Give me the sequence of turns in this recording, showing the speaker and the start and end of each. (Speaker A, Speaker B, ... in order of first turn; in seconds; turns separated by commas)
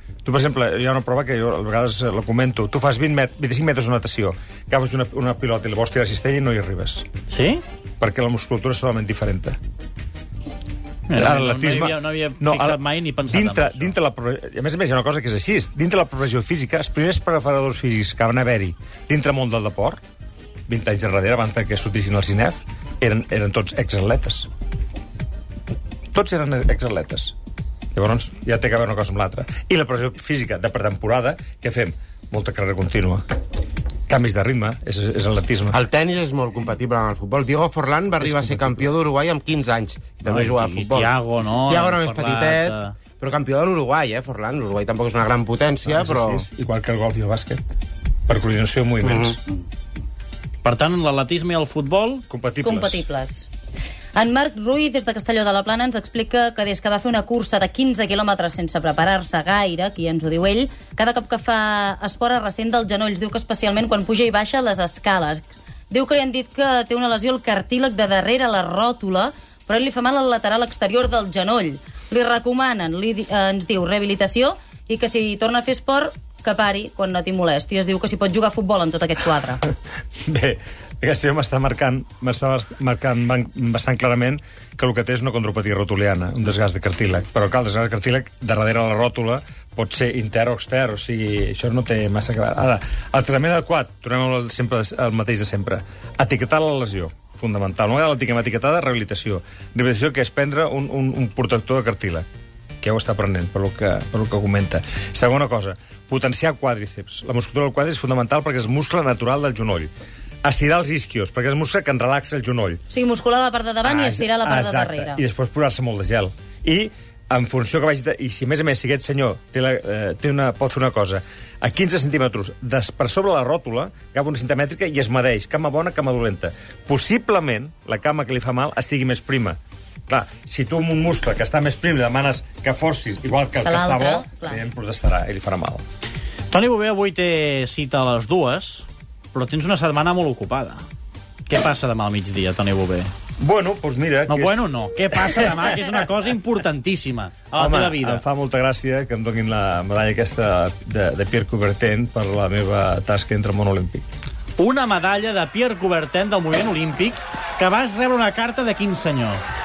Speaker A: 0.2-7.0, Speaker B: 7.3-7.6, Speaker A: 8.0-9.6, Speaker B: 11.1-13.9, Speaker A: 11.1-20.0, Speaker A: 20.7-24.5, Speaker A: 26.1-27.3, Speaker A: 27.9-33.2, Speaker A: 34.1-35.8, Speaker C: 35.7-41.1, Speaker A: 38.2-38.9, Speaker B: 40.2-42.9, Speaker C: 41.7-46.4, Speaker A: 45.9-47.7, Speaker A: 48.3-49.4, Speaker C: 49.0-49.3, Speaker B: 50.6-52.2, Speaker A: 52.3-53.0, Speaker D: 52.6-53.5, Speaker D: 54.1-79.6, Speaker A: 80.2-102.2, Speaker A: 102.8-109.9, Speaker A: 110.4-112.8, Speaker D: 112.9-115.2, Speaker A: 113.8-135.8, Speaker D: 133.6-134.6, Speaker B: 136.5-140.8, Speaker B: 141.5-143.1, Speaker A: 143.4-144.7, Speaker B: 144.3-148.2, Speaker A: 147.5-154.1, Speaker B: 154.6-159.4